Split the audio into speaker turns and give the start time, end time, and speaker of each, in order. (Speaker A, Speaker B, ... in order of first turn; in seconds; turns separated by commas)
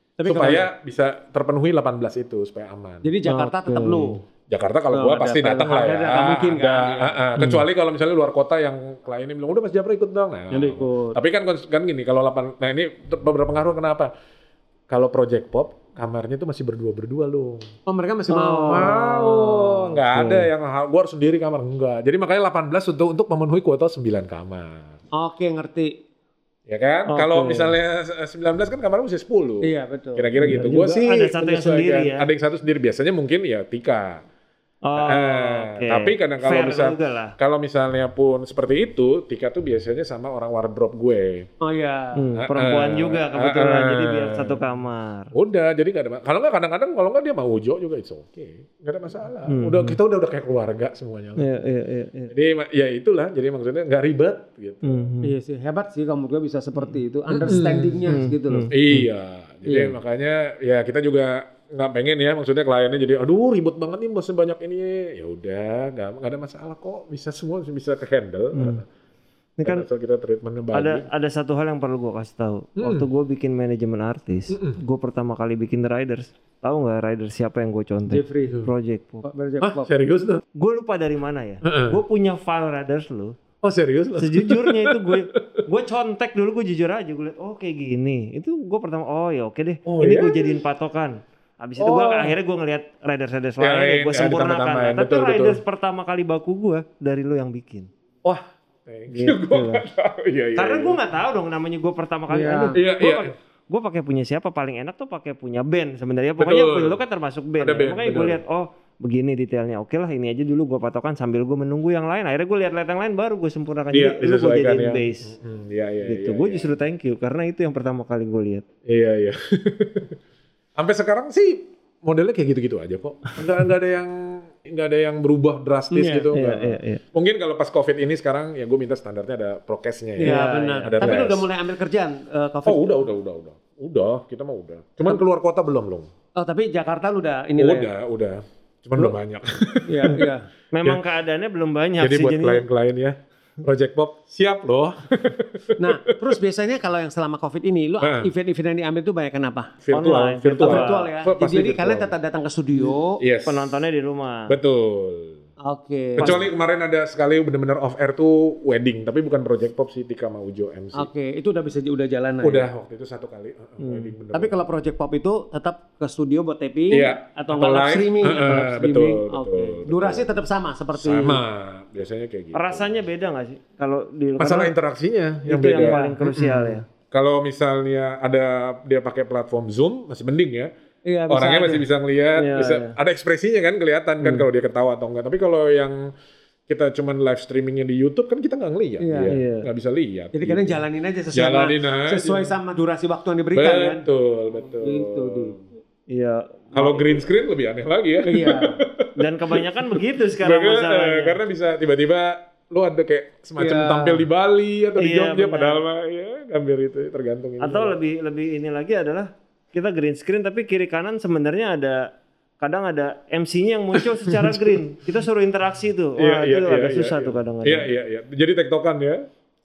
Speaker A: 0.2-0.7, Speaker B: 0.2-3.1, Speaker A: 3.0-4.2, Speaker C: 3.2-4.2, Speaker B: 4.5-14.1, Speaker A: 4.9-7.2, Speaker C: 7.4-7.6, Speaker A: 10.5-11.2, Speaker B: 14.9-17.7, Speaker A: 17.9-19.9, Speaker C: 18.3-19.4, Speaker B: 18.7-25.0, Speaker C: 20.1-20.5, Speaker A: 25.1-26.0, Speaker B: 26.7-34.2, Speaker C: 27.1-27.7, Speaker A: 29.6-30.9, Speaker C: 30.4-32.3, Speaker C: 34.8-37.4, Speaker B: 35.0-41.5, Speaker A: 41.6-42.3, Speaker C: 42.1-45.3, Speaker B: 42.3-44.6, Speaker B: 45.3-51.5, Speaker C: 49.5-50.0, Speaker C: 51.4-52.3, Speaker B: 52.3-55.1, Speaker C: 54.8-55.3, Speaker A: 55.2-58.7, Speaker B: 57.3-68.8, Speaker C: 58.1-59.0, Speaker A: 59.6-59.9, Speaker C: 68.5-68.8, Speaker C: 69.6-69.8, Speaker B: 69.6-71.1, Speaker C: 70.7-79.2, Speaker B: 72.8-73.1, Speaker B: 74.5-74.8, Speaker A: 78.1-78.6, Speaker A: 79.2-79.9, Speaker B: 79.6-80.4, Speaker C: 80.5-83.4, Speaker B: 81.6-82.0, Speaker B: 83.6-85.6, Speaker C: 84.2-97.9, Speaker B: 89.8-90.6, Speaker B: 91.8-92.3, Speaker B: 93.6-95.6, Speaker B: 98.2-101.0, Speaker C: 99.1-99.8, Speaker C: 100.5-115.3, Speaker A: 102.3-102.8, Speaker B: 102.7-103.3, Speaker B: 106.4-107.0, Speaker B: 107.6-108.4, Speaker B: 113.9-116.8, Speaker C: 116.0-118.6, Speaker B: 118.8-120.2, Speaker B: 120.8-131.5, Speaker A: 125.9-126.3, Speaker C: 126.3-127.0, Speaker A: 130.2-133.0, Speaker C: 130.2-131.3, Speaker B: 132.7-136.1, Speaker A: 136.3-137.9, Speaker B: 137.6-140.3, Speaker A: 139.8-140.5, Speaker C: 140.7-142.6, Speaker B: 142.0-146.3, Speaker A: 145.8-149.7, Speaker B: 148.0-148.3, Speaker B: 149.8-152.1, Speaker C: 149.9-151.1, Speaker A: 150.6-153.2, Speaker B: 152.8-153.8, Speaker C: 153.4-154.6, Speaker B: 154.5-155.4, Speaker A: 155.6-156.4, Speaker B: 156.2-161.1, Speaker C: 156.2-156.4, Speaker A: 160.9-162.7, Speaker B: 162.4-164.6, Speaker C: 163.8-164.1, Speaker A: 164.3-171.4, Speaker B: 166.9-170.3, Speaker B: 170.9-173.0, Speaker C: 172.5-174.7, Speaker B: 174.4-180.7, Speaker C: 175.4-176.8, Speaker A: 175.8-176.1, Speaker A: 181.0-181.8, Speaker B: 181.3-186.1, Speaker C: 182.3-182.9, Speaker C: 184.2-184.4, Speaker B: 186.7-192.6, Speaker A: 189.0-189.3, Speaker C: 189.3-189.7, Speaker A: 190.3-194.0, Speaker B: 193.5-195.6, Speaker A: 194.7-195.6, Speaker C: 196.1-197.2, Speaker B: 196.7-207.9, Speaker A: 198.2-198.8, Speaker C: 199.2-201.4, Speaker A: 203.6-204.3, Speaker C: 204.9-205.8, Speaker C: 207.6-217.9, Speaker B: 213.9-214.8, Speaker B: 216.2-219.3